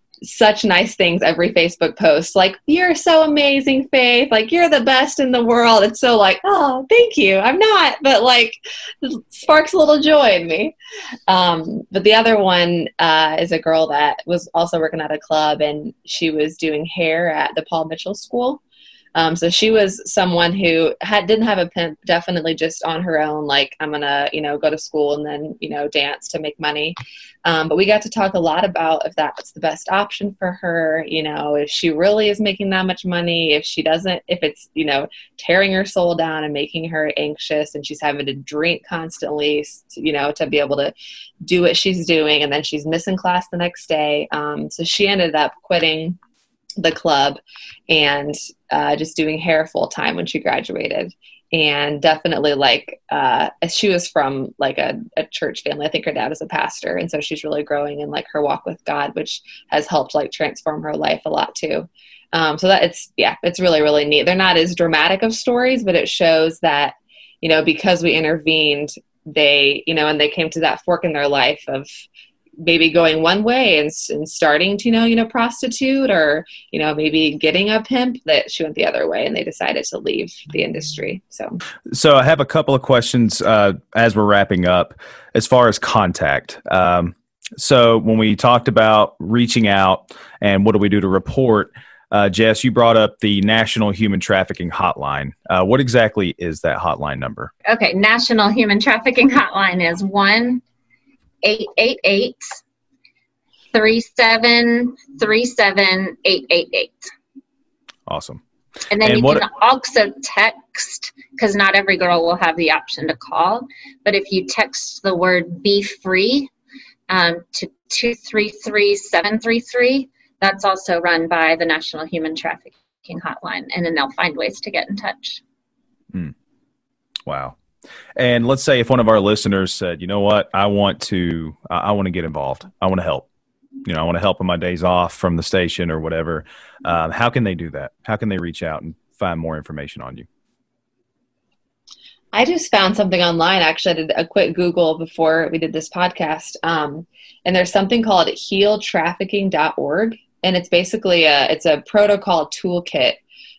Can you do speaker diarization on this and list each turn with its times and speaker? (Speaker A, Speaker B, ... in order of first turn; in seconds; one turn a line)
Speaker A: 0.2-10.7
Speaker A: 11.3-18.6
Speaker A: 19.1-46.2
Speaker A: 46.8-71.9
Speaker A: 72.6-81.6
Speaker B: 81.9-97.5
Speaker C: 97.7-100.6
Speaker C: 101.4-102.6
Speaker C: 103.7-107.1
Speaker B: 108.1-108.4
Speaker C: 108.9-116.5
Speaker B: 109.0-109.5
Speaker C: 117.1-125.4
Speaker B: 127.2-127.6
Speaker B: 128.2-133.3
Speaker B: 133.8-140.3
Speaker A: 142.3-153.2